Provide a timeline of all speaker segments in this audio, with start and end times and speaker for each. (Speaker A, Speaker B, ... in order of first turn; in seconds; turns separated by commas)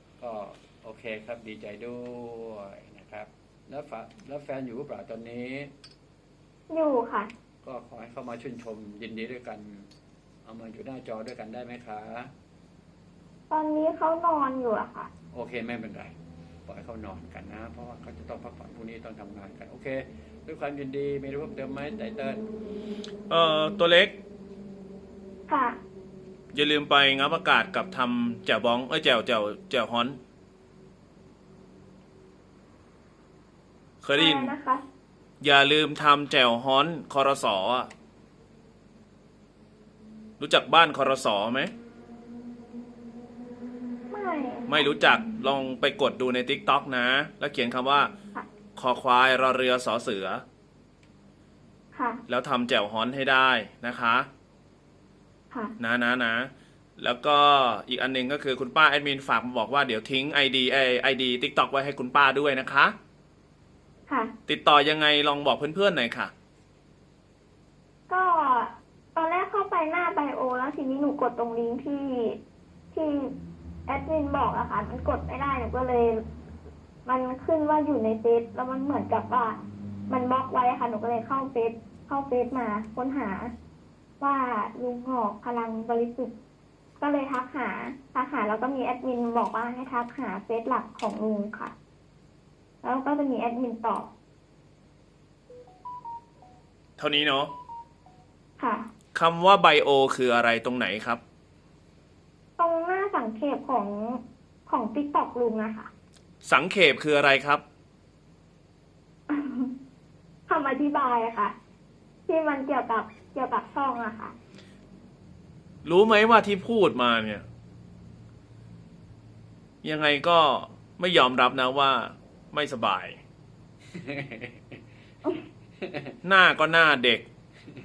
Speaker A: 0.2-5.7, Speaker B: 6.7-7.3, Speaker A: 7.6-9.9, Speaker A: 10.4-12.3, Speaker B: 13.5-15.1, Speaker A: 15.3-16.1, Speaker A: 16.7-22.4, Speaker C: 23.3-24.2, Speaker B: 25.5-25.8, Speaker C: 26.5-30.2, Speaker C: 34.0-34.5, Speaker B: 34.1-34.8, Speaker C: 35.4-37.9, Speaker C: 40.4-41.7, Speaker B: 44.1-44.8, Speaker C: 44.7-48.1, Speaker C: 48.8-50.4, Speaker B: 51.9-52.2, Speaker C: 52.3-54.3, Speaker C: 55.8-62.9, Speaker C: 64.5-66.3, Speaker B: 68.1-72.4, Speaker B: 72.9-73.3, Speaker B: 73.9-76.2, Speaker B: 77.0-79.6, Speaker B: 80.1-83.5, Speaker B: 84.2-86.3, Speaker B: 87.0-91.7, Speaker B: 92.8-94.1, Speaker C: 97.0-97.5, Speaker B: 98.6-98.8, Speaker C: 99.1-101.2, Speaker B: 102.6-105.9, Speaker C: 106.4-107.6, Speaker B: 109.3-109.7, Speaker B: 110.5-111.5, Speaker B: 112.3-114.3, Speaker C: 115.8-117.4, Speaker C: 119.8-123.2, Speaker A: 123.9-124.8, Speaker A: 125.8-126.1, Speaker C: 126.2-127.2